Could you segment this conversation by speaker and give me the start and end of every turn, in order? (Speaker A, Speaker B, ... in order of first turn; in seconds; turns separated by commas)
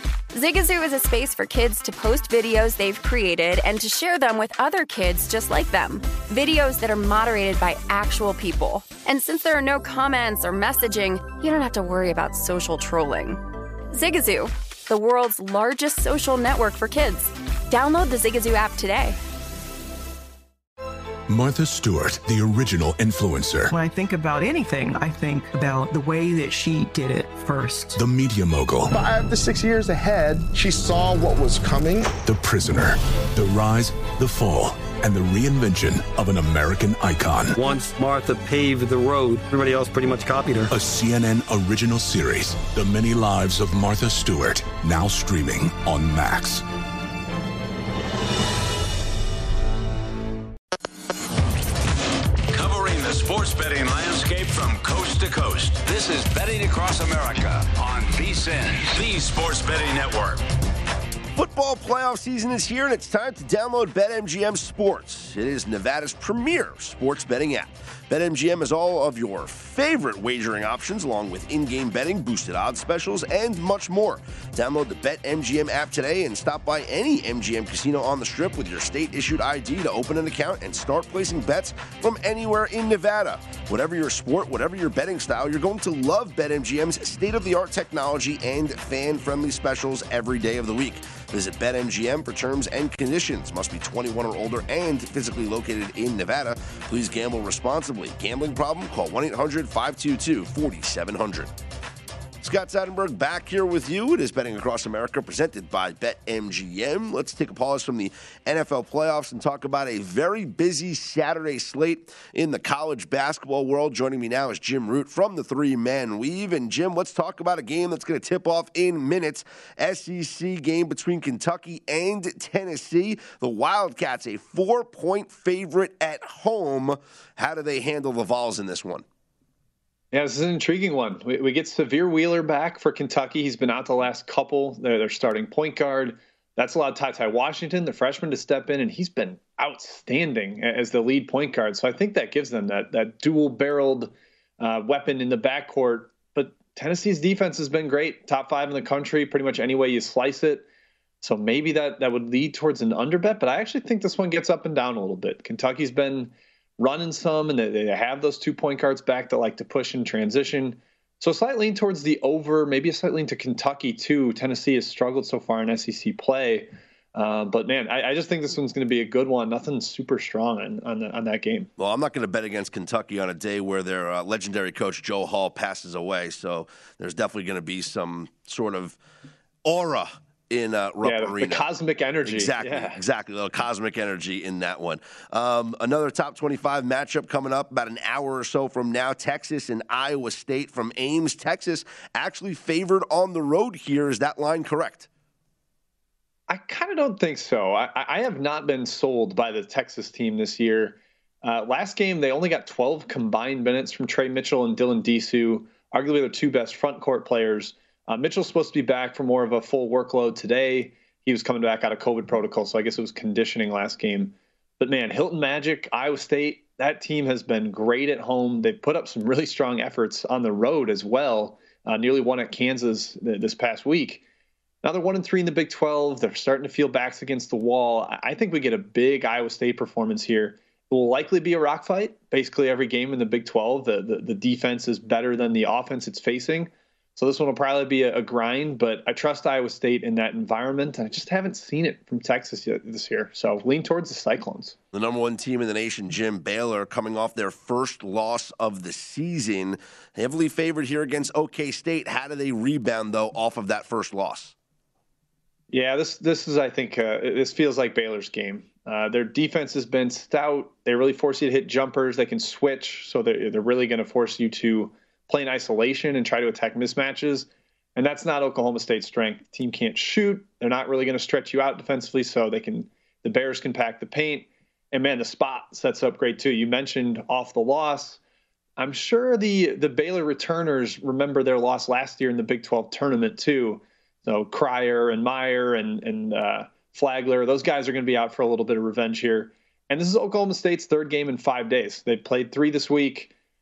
Speaker A: 0.3-13.4, Speaker A: 13.9-19.2, Speaker B: 21.3-23.7, Speaker C: 23.7-28.0, Speaker B: 27.9-29.0, Speaker D: 28.9-32.2, Speaker B: 32.2-37.6, Speaker E: 37.6-40.7, Speaker B: 40.7-46.6, Speaker F: 52.5-60.4, Speaker G: 61.4-101.5, Speaker G: 102.4-129.1, Speaker H: 130.1-150.7, Speaker H: 151.2-171.7, Speaker G: 171.8-179.0, Speaker G: 179.7-181.7, Speaker H: 181.0-183.0, Speaker G: 182.2-195.1, Speaker H: 196.5-224.2, Speaker H: 224.8-244.8, Speaker G: 244.9-254.6, Speaker H: 255.7-278.2, Speaker H: 278.8-293.3